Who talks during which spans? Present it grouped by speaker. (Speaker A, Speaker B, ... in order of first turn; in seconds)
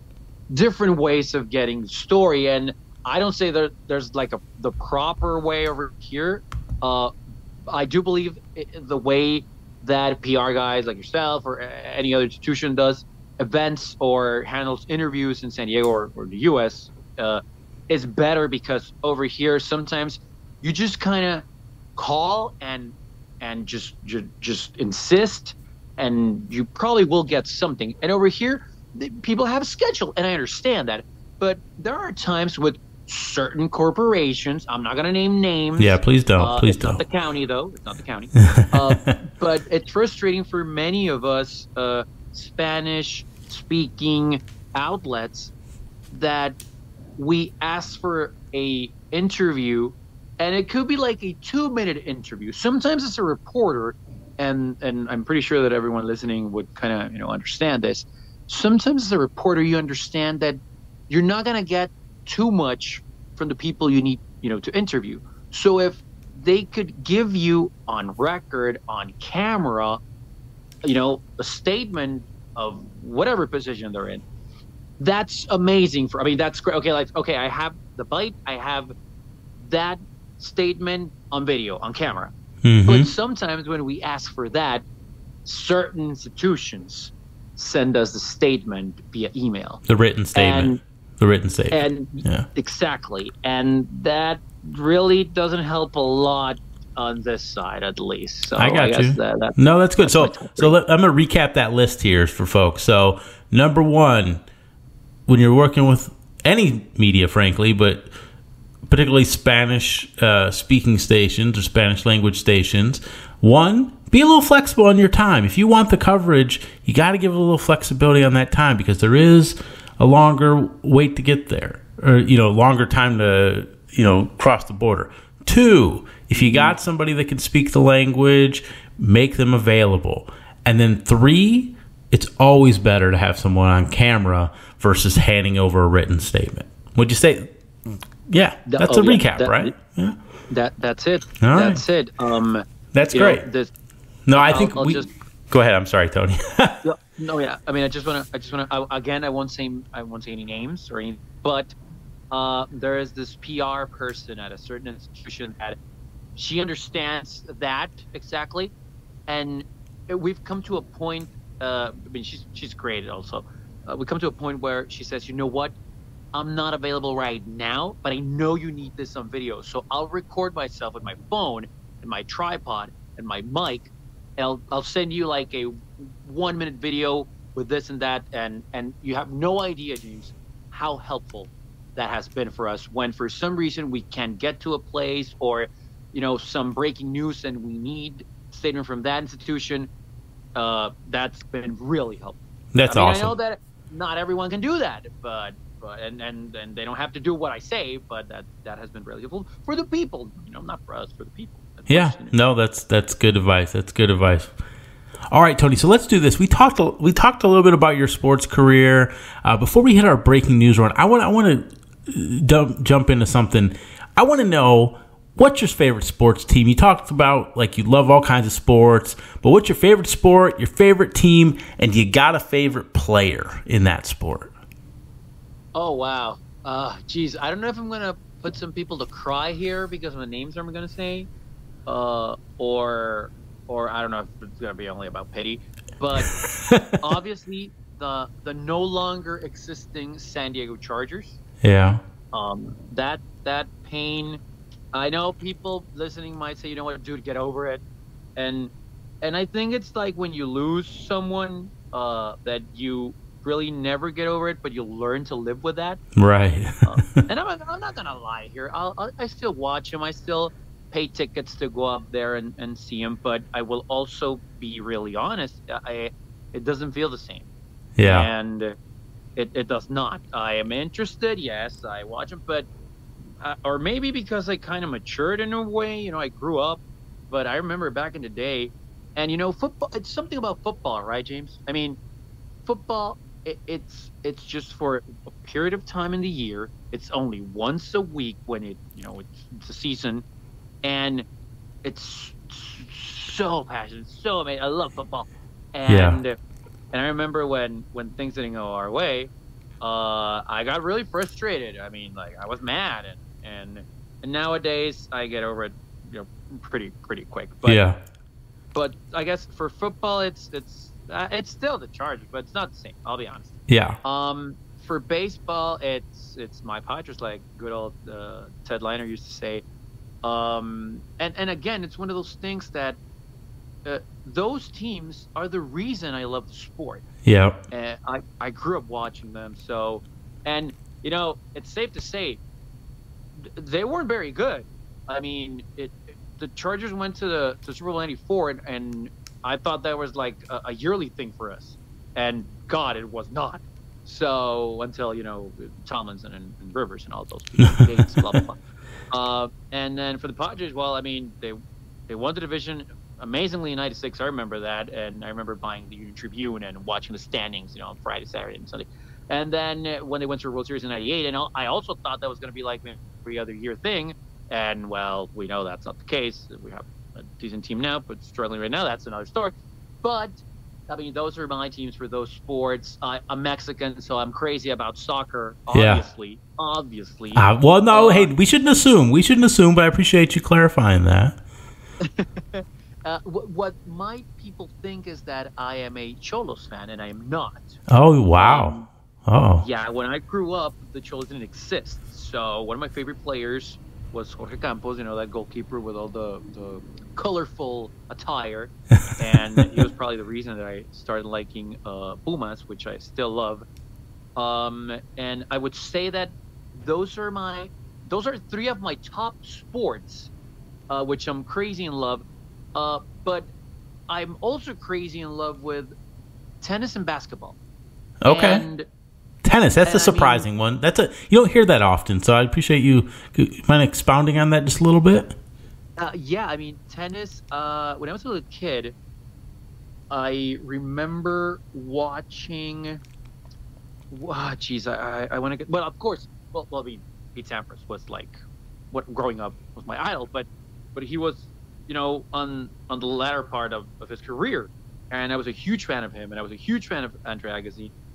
Speaker A: 0.5-7.1, 7.7-21.4, 21.9-45.5, 46.1-46.6, 47.2-70.0, 70.8-74.2, 75.0-78.9, 79.6-82.3, 82.8-84.8, 85.4-89.8, 90.3-90.8, 91.7-100.8, 126.3-126.8, 138.7-139.8, 140.5-143.7, 144.3-145.1, 146.8-151.8, 152.3-155.8, 156.3-158.7, 159.3-165.7, 166.3-189.9, 190.6-202.3, 225.7-231.3, 231.8-241.4, 242.3-244.4, 244.9-247.8, 248.3-256.0, 256.8-267.5, 268.0-268.8, 269.4-272.7, 273.4-282.0, 282.6-290.2, 290.8-291.2, 291.8-296.4, 296.9-307.8, 308.7-319.6, 320.2-323.0, 323.8-327.0, 327.7-332.4, 333.4-348.6, 349.1-378.3, 382.0-387.8, 388.3-388.9, 389.6-403.6, 404.4-410.3, 410.9-413.5, 414.1-415.9, 416.6-417.6, 418.2-418.9, 419.8-420.5, 426.0-428.9, 430.1-433.0, 434.1-438.4, 438.9-447.9
Speaker B: 35.8-37.0, 38.4-39.2, 82.6-83.1, 89.8-92.5, 98.5-104.4, 105.3-108.1, 108.9-137.5, 138.3-140.2, 141.4-141.8, 142.9-143.4, 144.2-146.8, 192.7-193.3, 201.9-204.5, 205.3-224.5, 241.6-242.0, 256.1-257.2, 268.0-268.3, 295.9-296.2, 307.6-308.0, 313.7-314.0, 327.2-327.6, 347.6-347.8, 375.7-376.0, 377.3-381.4, 387.9-388.7, 389.2-389.6, 418.2-418.6, 419.4-425.3